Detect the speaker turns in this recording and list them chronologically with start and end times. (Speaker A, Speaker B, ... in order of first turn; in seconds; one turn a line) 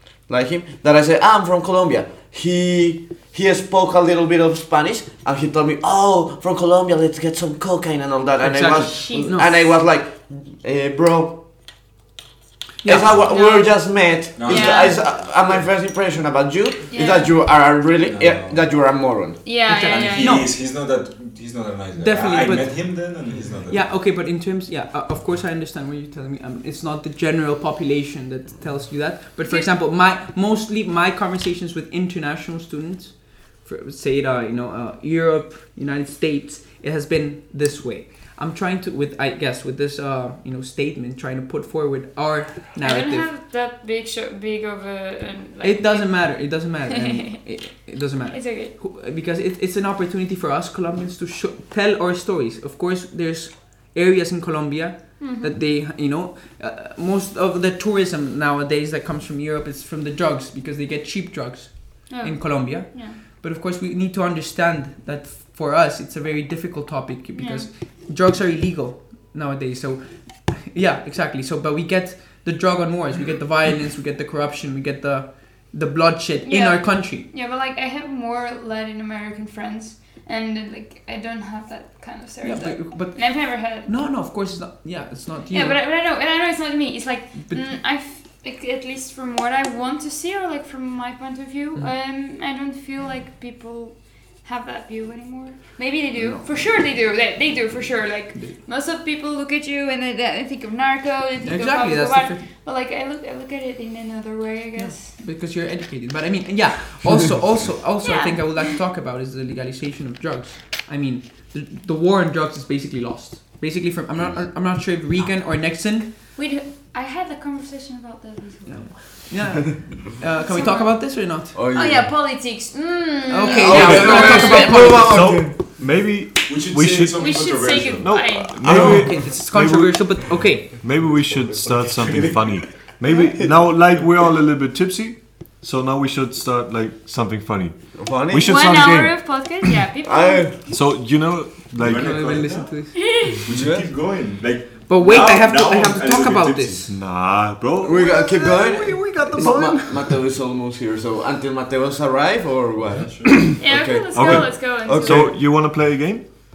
Speaker A: 0.3-11.4
Speaker B: 8.4-9.6
Speaker C: 8.8-9.3
Speaker B: 12.8-13.1
Speaker A: 12.8-19.4
Speaker C: 13.2-13.9
Speaker D: 14.4-15.6
Speaker C: 14.4-15.0
Speaker C: 16.9-17.3
Speaker D: 18.0-18.6
Speaker C: 19.4-20.5
Speaker B: 19.7-20.5
Speaker D: 19.9-23.9
Speaker B: 22.0-23.0
Speaker B: 23.7-43.3
Speaker C: 29.4-29.7
Speaker C: 42.8-46.1
Speaker B: 45.6-77.3
Speaker C: 48.3-48.7
Speaker C: 55.2-55.5
Speaker C: 62.1-63.2
Speaker C: 67.3-67.7
Speaker C: 76.5-83.9
Speaker B: 82.4-85.8
Speaker C: 85.5-105.1
Speaker B: 96.2-96.5
Speaker B: 101.4-102.4
Speaker B: 104.8-116.1
Speaker C: 108.0-108.7
Speaker C: 116.4-118.9
Speaker B: 118.7-121.5
Speaker C: 120.4-124.9
Speaker A: 121.5-122.1
Speaker B: 123.3-125.1
Speaker A: 123.5-125.6
Speaker E: 123.8-137.8
Speaker D: 126.5-128.2
Speaker C: 127.2-128.6
Speaker B: 128.6-130.7
Speaker A: 128.8-129.1
Speaker D: 132.0-132.3
Speaker A: 138.0-138.6
Speaker E: 138.3-139.7
Speaker C: 138.4-140.6
Speaker A: 140.1-140.6
Speaker E: 140.7-142.4
Speaker D: 141.8-142.8
Speaker B: 141.9-143.0
Speaker C: 142.9-143.4
Speaker D: 143.4-146.9
Speaker A: 143.4-143.9
Speaker B: 144.9-146.9
Speaker E: 146.9-150.2
Speaker A: 147.8-155.3
Speaker D: 152.8-153.4
Speaker C: 153.6-155.3
Speaker E: 154.1-156.2